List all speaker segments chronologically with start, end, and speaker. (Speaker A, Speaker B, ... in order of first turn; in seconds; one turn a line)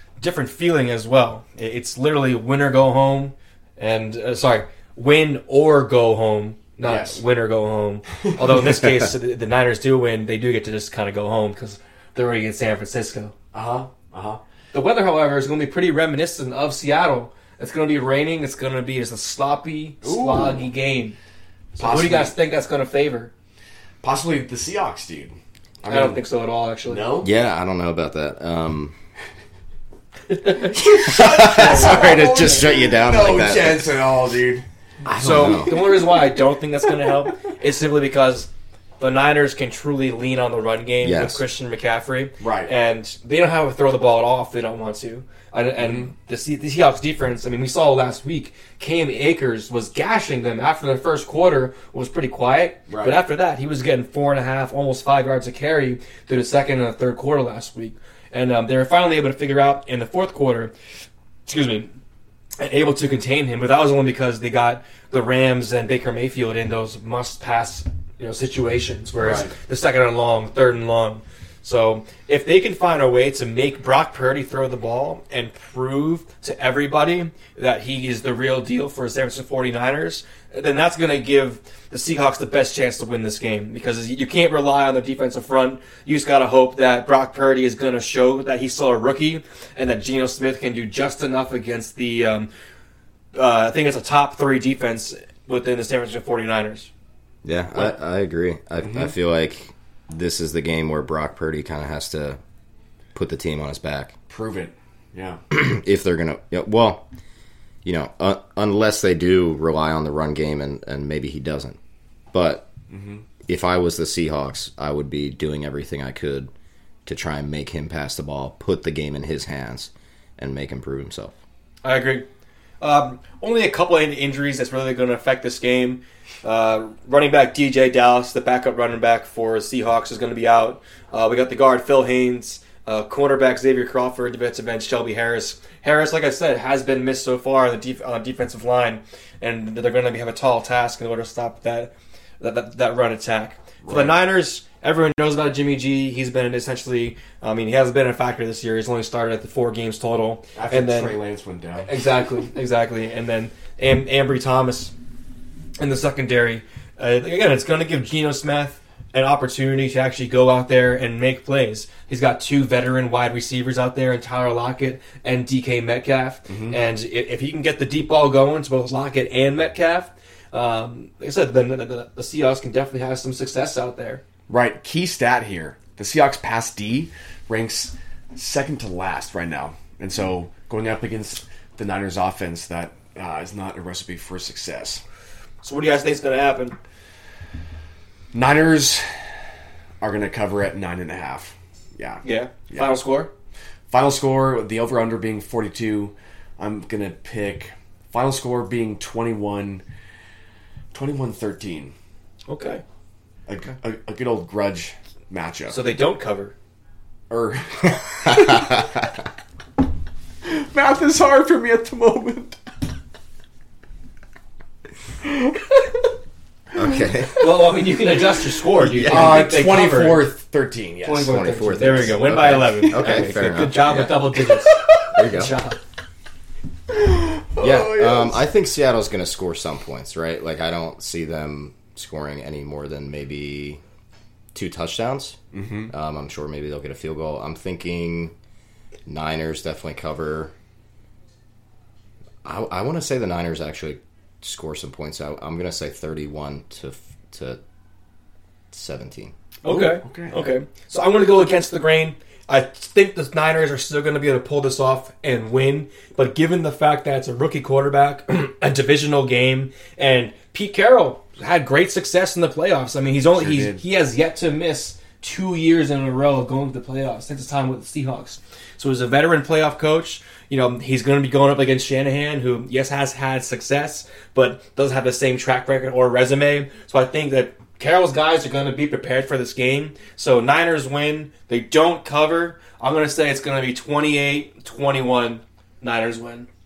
Speaker A: 0.2-13.3
Speaker B: 6.8-7.2
Speaker B: 13.5-14.4
Speaker A: 14.7-21.2
Speaker B: 20.0-20.7
Speaker B: 21.8-22.3
Speaker A: 21.8-23.3
Speaker B: 24.0-26.2
Speaker A: 25.9-27.1
Speaker B: 26.9-27.3
Speaker C: 27.2-28.9
Speaker A: 30.3-32.0
Speaker B: 30.7-36.2
Speaker C: 30.8-34.0
Speaker C: 35.0-36.0
Speaker A: 35.2-60.7
Speaker C: 41.0-41.4
Speaker B: 42.4-42.7
Speaker B: 45.8-46.1
Speaker B: 52.9-53.2
Speaker A: 61.5-61.9
Speaker A: 62.6-92.5
Speaker B: 69.2-69.5
Speaker A: 93.3-96.9
Speaker C: 97.4-102.4
Speaker C: 103.1-104.1
Speaker B: 104.3-105.4
Speaker C: 105.5-107.1
Speaker C: 107.8-111.8
Speaker C: 112.3-112.7
Speaker B: 112.9-113.2
Speaker C: 113.5-116.5
Speaker C: 117.1-121.3
Speaker A: 121.8-122.3
Speaker A: 122.8-151.2
Speaker B: 143.8-144.2
Speaker B: 150.6-151.9
Speaker A: 151.9-154.9
Speaker A: 155.8-174.2
Speaker B: 166.5-166.8
Speaker B: 174.5-185.0
Speaker A: 185.6-186.8
Speaker B: 188.3-189.1
Speaker B: 190.0-192.9
Speaker A: 192.2-193.3
Speaker B: 193.9-199.8
Speaker B: 200.9-201.9
Speaker A: 202.5-202.8
Speaker B: 203.5-205.8
Speaker A: 205.7-206.5
Speaker B: 207.3-209.1
Speaker C: 208.3-208.9
Speaker B: 210.4-212.6
Speaker B: 215.2-216.0
Speaker C: 216.7-217.7
Speaker A: 217.4-220.3
Speaker C: 218.8-219.5
Speaker B: 218.9-221.9
Speaker A: 221.0-225.8
Speaker C: 221.3-224.2
Speaker B: 222.5-224.9
Speaker C: 225.1-225.5
Speaker B: 226.9-228.4
Speaker C: 227.6-233.8
Speaker C: 234.5-235.4
Speaker B: 235.5-235.9
Speaker C: 235.9-238.3
Speaker C: 239.1-240.5
Speaker C: 242.4-247.6
Speaker C: 248.7-249.3
Speaker A: 249.6-286.5
Speaker B: 249.7-250.5
Speaker B: 263.4-263.8